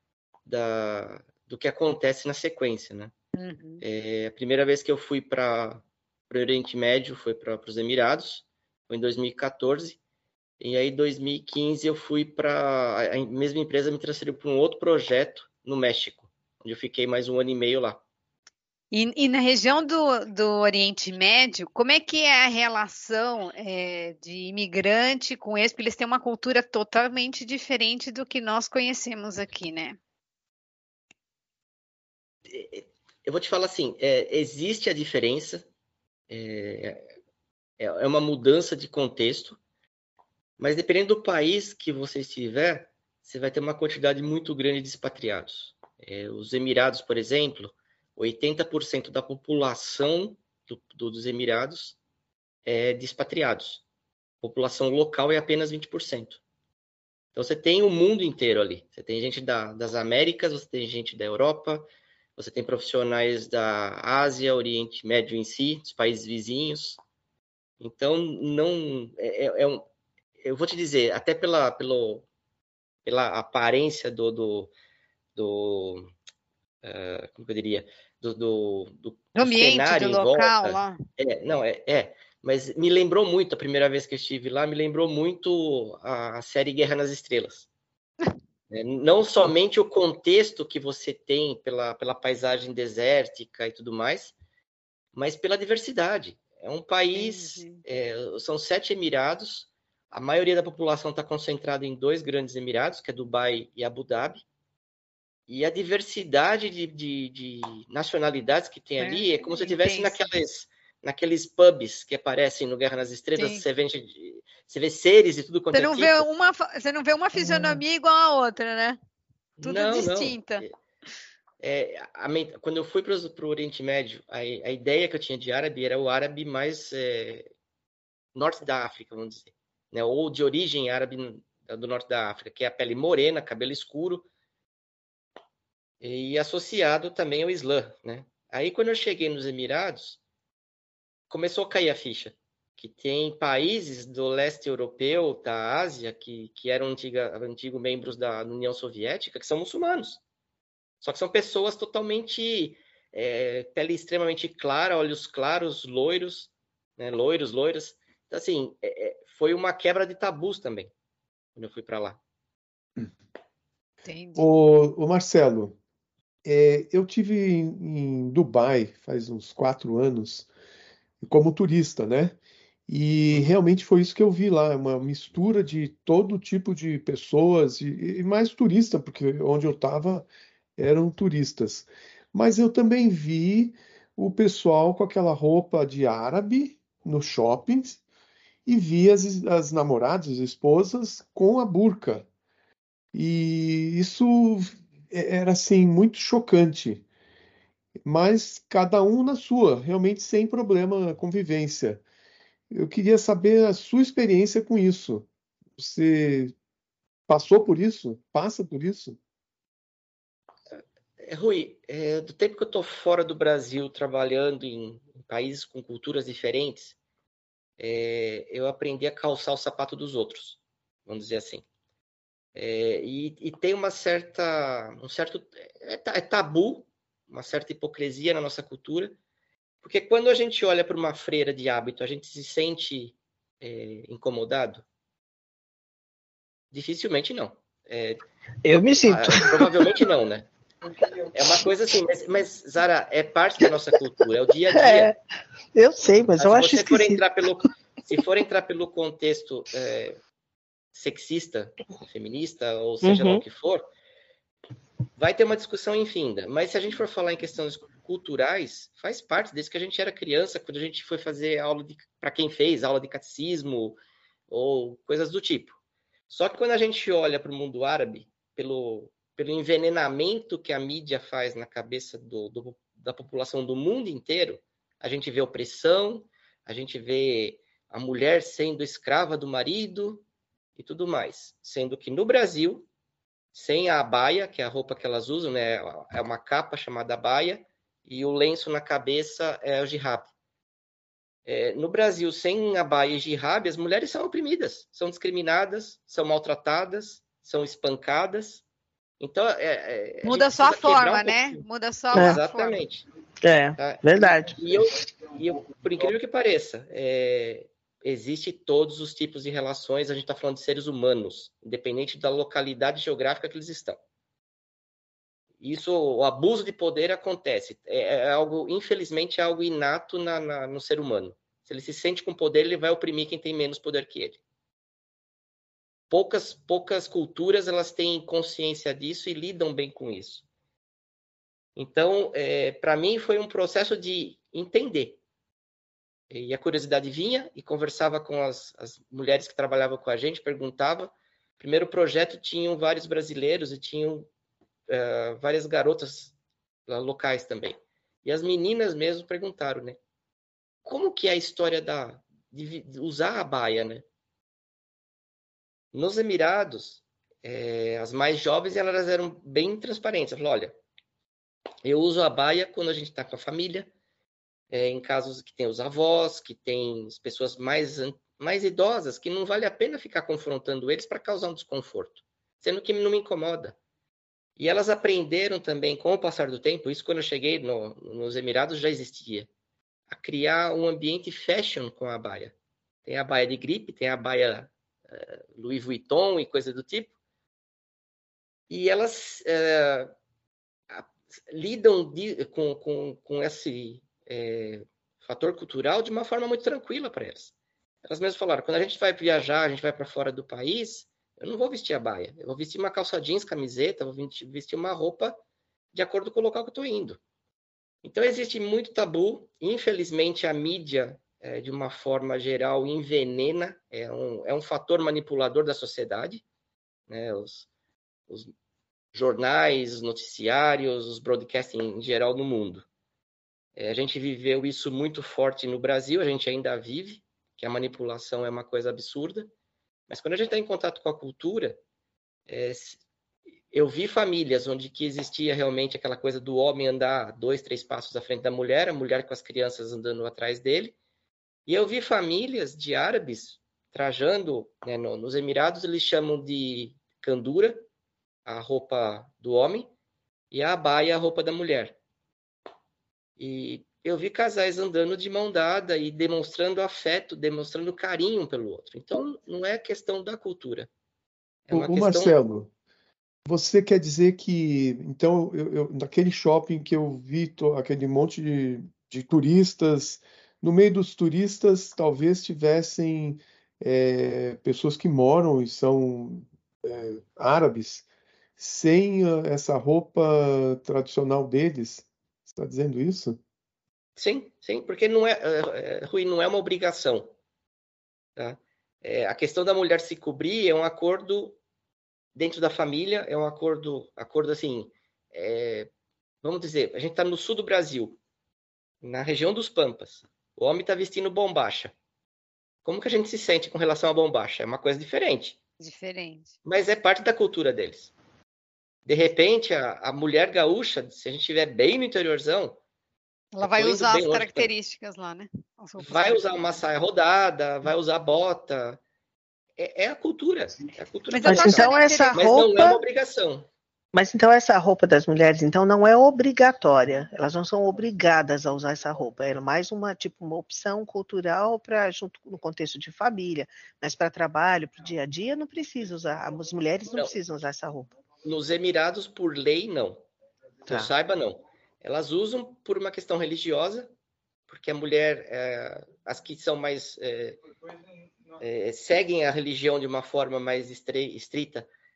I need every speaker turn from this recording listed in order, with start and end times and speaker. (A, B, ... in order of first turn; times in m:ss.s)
0:00.5-0:03.1 A
0:03.4-0:03.8 B
0:03.8-0:10.0 A
0:10.6-0:18.0 A
0:18.9-0:30.0 B
0:32.5-0:35.7 A
0:36.3-0:37.0 A
0:37.8-0:39.6 A
0:40.6-0:52.0 A
0:52.7-0:53.8 A
0:54.4-0:56.4 A
0:57.4-1:07.0 A
1:07.8-1:09.9 A
1:10.4-1:12.3 A
1:13.0-1:14.7 A
1:15.4-1:16.1 A
1:16.8-1:27.7 A
1:19.4-1:20.9 B
1:28.7-1:34.4 A
1:35.1-1:44.4 A
1:37.2-1:37.8 B
1:45.5-1:56.2 A
1:49.0-1:50.2 B
1:53.4-1:53.6 B
1:55.7-1:59.0 B
1:57.4-1:57.8 A
1:59.6-2:00.7 A
1:59.6-2:00.6 B
2:01.6-2:07.5 A
2:08.4-2:14.3 A
2:16.0-2:20.2 A
2:21.3-2:30.2 A
2:31.0-2:40.9 A
2:41.6-2:42.2 A
2:44.1-2:44.5 B
2:44.4-2:45.8 C
2:46.4-2:50.5 C
2:51.2-2:52.4 C
2:52.9-3:08.0 C
3:08.7-3:12.3 C
3:13.1-3:17.0 C
3:18.0-3:22.0 C
3:22.7-3:25.3 C
3:25.8-3:26.5 C
3:27.3-3:29.2 C
3:30.8-3:37.0 A
3:37.8-3:41.6 A
3:42.6-3:49.2 A
3:49.8-3:54.8 A
3:56.7-3:58.2 A
3:58.6-4:00.0 D
3:58.9-4:00.5 A
4:01.3-4:05.1 A
4:04.7-4:05.2 D
4:05.8-4:07.2 D
4:06.4-4:10.2 A
4:10.9-4:13.8 A
4:13.0-4:13.4 D
4:15.2-4:24.0 A
4:24.5-4:25.8 A
4:26.3-4:40.2 A
4:40.8-4:42.9 A
4:43.5-4:50.3 A
4:51.5-4:58.6 A
4:59.2-5:03.0 A
5:00.2-5:02.8 B
5:03.4-5:04.6 D
5:03.8-5:14.0 A
5:15.6-5:24.4 A
5:26.1-5:30.4 A
5:31.8-5:35.2 A
5:36.3-5:44.3 A
5:44.9-5:46.4 A
5:46.9-5:50.0 A
5:50.8-5:54.0 A
5:55.9-6:00.8 A
6:01.8-6:03.9 A
6:04.7-6:13.8 A
6:14.6-6:19.5 A
6:20.1-6:22.5 A
6:23.0-6:27.1 A
6:28.7-6:30.1 A
6:30.9-6:37.5 A
6:38.0-6:45.4 A
6:45.9-6:47.2 A
6:48.0-6:56.4 A
6:57.1-6:57.7 A
6:59.1-7:02.9 A
7:03.8-7:09.5 A
7:10.1-7:11.8 A
7:12.5-7:13.0 A
7:13.7-7:21.0 A
7:21.7-7:27.9 A
7:28.5-7:29.9 A
7:30.5-7:32.0 A
7:33.4-7:40.9 A
7:41.7-7:42.4 A
7:41.7-7:42.7 C
7:43.5-7:58.0 C
7:58.6-8:03.4 C
8:04.2-8:07.3 A
8:08.4-8:11.6 A
8:12.4-8:15.9 A
8:16.4-8:18.2 A
8:19.0-8:21.9 A
8:22.8-8:25.6 A
8:25.8-8:26.5 B
8:26.6-8:28.1 A
8:29.1-8:32.8 A
8:33.5-8:36.4 B
8:33.6-8:34.7 A
8:36.0-8:39.0 A
8:39.8-8:43.7 A
8:41.3-8:42.4 B
8:41.4-8:43.0 D
8:44.1-8:58.1 D
8:58.4-9:00.2 A
9:00.9-9:04.1 A
9:04.7-9:07.6 A
9:08.6-9:11.9 A